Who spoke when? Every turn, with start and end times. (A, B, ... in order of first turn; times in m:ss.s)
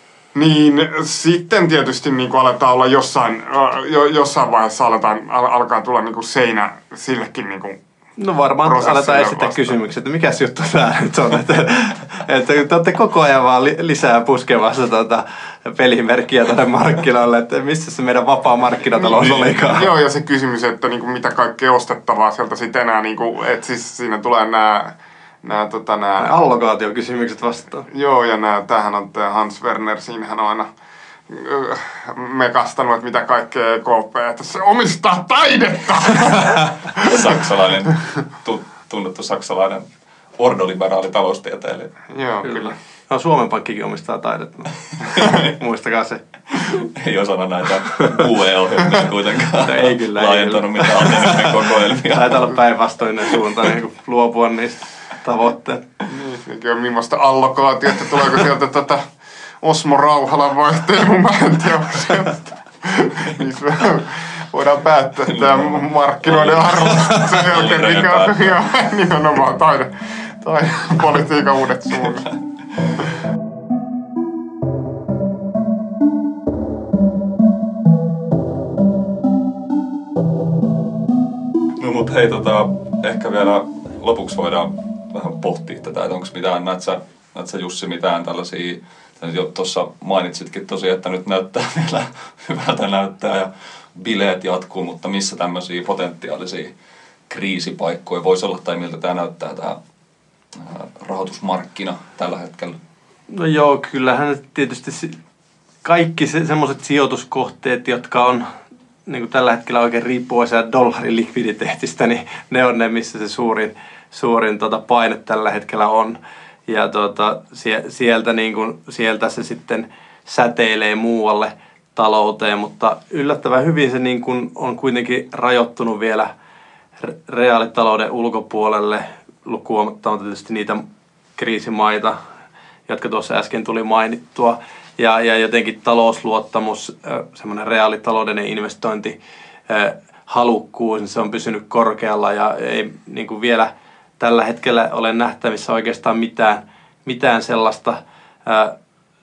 0:00.4-0:07.8 A
0:08.2-0:19.9 B
0:08.6-0:09.7 A
0:19.0-0:26.3 A
0:26.2-0:27.9 B
0:27.9-0:30.7 A
0:31.3-0:37.3 A
0:37.0-0:41.9 C
0:42.1-0:42.7 A
0:42.4-0:46.8 B
0:45.0-0:45.5 C
0:46.5-0:52.5 C
0:49.6-0:55.9 B
0:56.1-0:59.1 A
0:59.6-1:12.3 A
1:05.3-1:08.6 C
1:12.0-1:13.0 C
1:21.8-1:36.7 C
1:37.3-1:39.8 C
1:40.5-1:42.8 C
1:43.3-1:45.2 B
1:45.8-1:48.5 B
1:49.1-2:06.3 B
2:07.0-2:10.8 B
2:11.4-2:12.2 B
2:12.9-2:19.2 B
2:19.7-2:28.8 B